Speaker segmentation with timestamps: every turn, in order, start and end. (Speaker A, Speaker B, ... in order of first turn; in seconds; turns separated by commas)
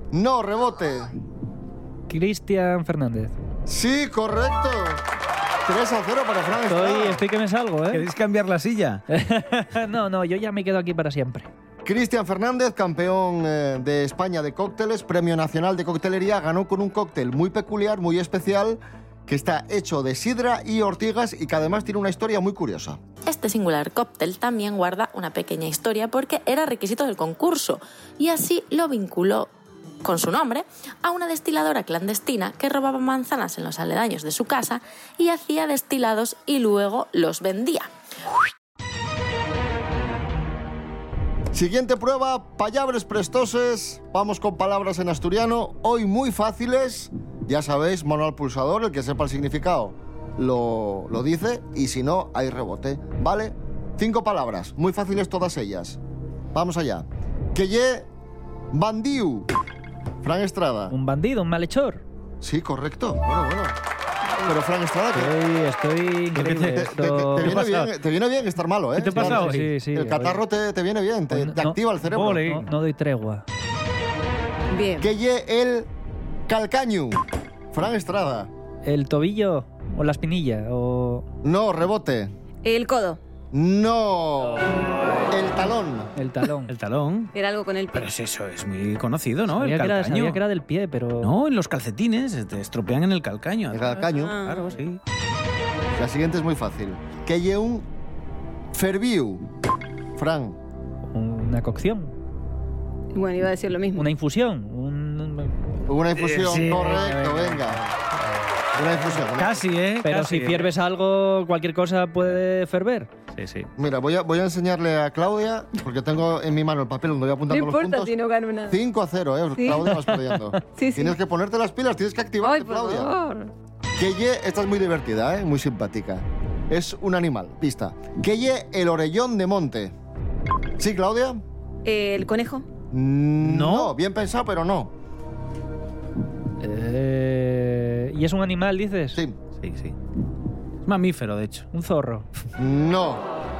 Speaker A: 0.1-1.1, Speaker B: 2.1-3.3, Speaker A: 3.6-5.0, Speaker A: 5.6-7.2, Speaker B: 6.7-8.0, Speaker C: 7.9-9.0, Speaker B: 9.1-11.5, Speaker A: 11.8-23.0, Speaker D: 23.2-29.5, Speaker D: 30.0-37.9, Speaker A: 41.5-56.0, Speaker A: 56.5-58.1, Speaker A: 58.7-59.5, Speaker A: 60.2-60.9, Speaker B: 60.9-62.0, Speaker A: 62.4-63.8, Speaker A: 64.4-65.3, Speaker B: 65.1-67.7, Speaker C: 66.3-66.8, Speaker A: 66.4-72.6, Speaker C: 67.4-67.9, Speaker C: 69.0-69.7, Speaker B: 69.1-70.4, Speaker B: 71.3-73.4, Speaker E: 74.7-75.1, Speaker A: 75.0-75.9, Speaker A: 76.5-78.5, Speaker B: 78.8-81.2, Speaker A: 81.4-82.3, Speaker E: 82.6-83.2, Speaker A: 83.5-84.7, Speaker A: 85.3-86.1, Speaker B: 86.2-86.7, Speaker C: 86.7-87.3, Speaker E: 87.3-88.1, Speaker C: 87.9-90.4, Speaker B: 89.5-91.3, Speaker C: 91.2-95.0, Speaker A: 93.7-94.4, Speaker E: 94.0-94.8, Speaker A: 95.9-97.8, Speaker A: 98.7-99.4, Speaker A: 100.2-100.6, Speaker B: 101.1-102.1, Speaker E: 103.1-104.0, Speaker B: 104.0-105.5, Speaker A: 105.8-107.9, Speaker C: 106.2-107.0, Speaker B: 106.7-107.8, Speaker A: 108.7-109.7, Speaker C: 109.4-110.7, Speaker B: 110.0-113.1, Speaker C: 113.3-113.7, Speaker A: 113.8-118.1, Speaker E: 117.5-118.8, Speaker A: 118.7-123.1, Speaker E: 119.6-119.9, Speaker E: 120.8-121.1, Speaker E: 122.4-123.5, Speaker A: 124.0-129.9, Speaker A: 130.8-131.4, Speaker E: 131.8-132.6, Speaker A: 132.9-134.9, Speaker C: 133.4-133.9, Speaker B: 136.6-139.2, Speaker C: 139.6-139.9, Speaker C: 140.8-141.7, Speaker B: 141.7-142.2, Speaker A: 142.6-143.2